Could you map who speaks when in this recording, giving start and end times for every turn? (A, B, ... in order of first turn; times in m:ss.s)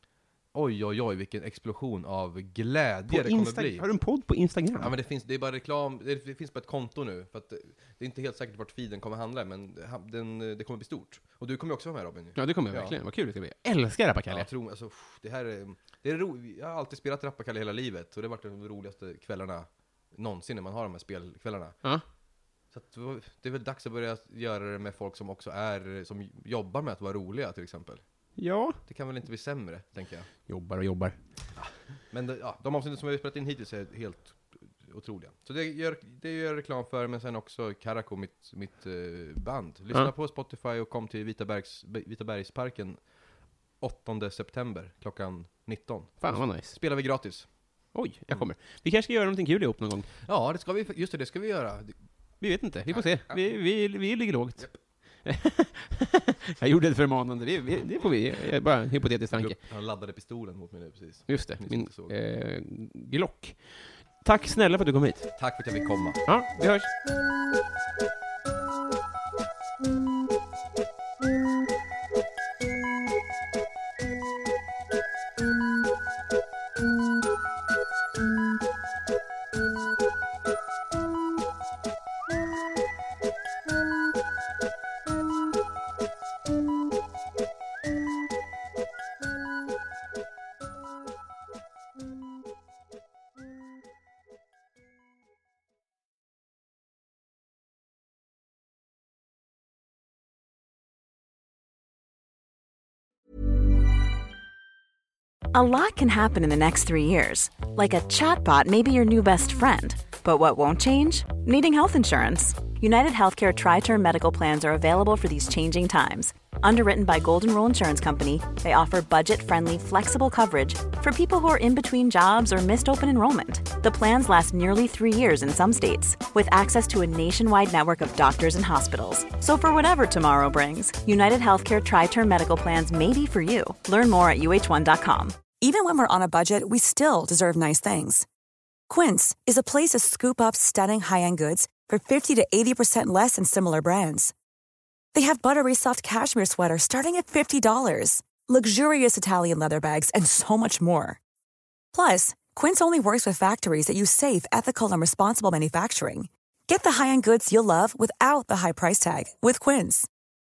0:00.5-0:03.9 A
0:03.1-0:04.9 B
0:04.8-0:13.0 A
0:12.4-0:14.5 B
0:14.3-0:21.8 A
0:22.7-0:28.0 A
0:28.4-0:28.8 B
0:28.8-0:30.3 A
0:30.5-0:31.2 B
0:31.6-0:43.0 A
0:43.8-0:47.5 A
0:46.2-0:46.8 B
0:47.9-0:50.1 B
0:50.2-0:52.0 A
0:52.4-0:54.7 B
0:52.9-0:53.4 A
0:55.2-0:59.6 B
0:59.3-1:02.1 A
1:01.3-1:05.3 B
1:05.4-1:06.2 A
1:06.3-1:06.9 B
1:45.5-2:15.4 C
2:15.6-2:18.3 D
2:18.9-2:24.3 D
2:25.1-2:31.2 D
2:31.9-2:40.1 D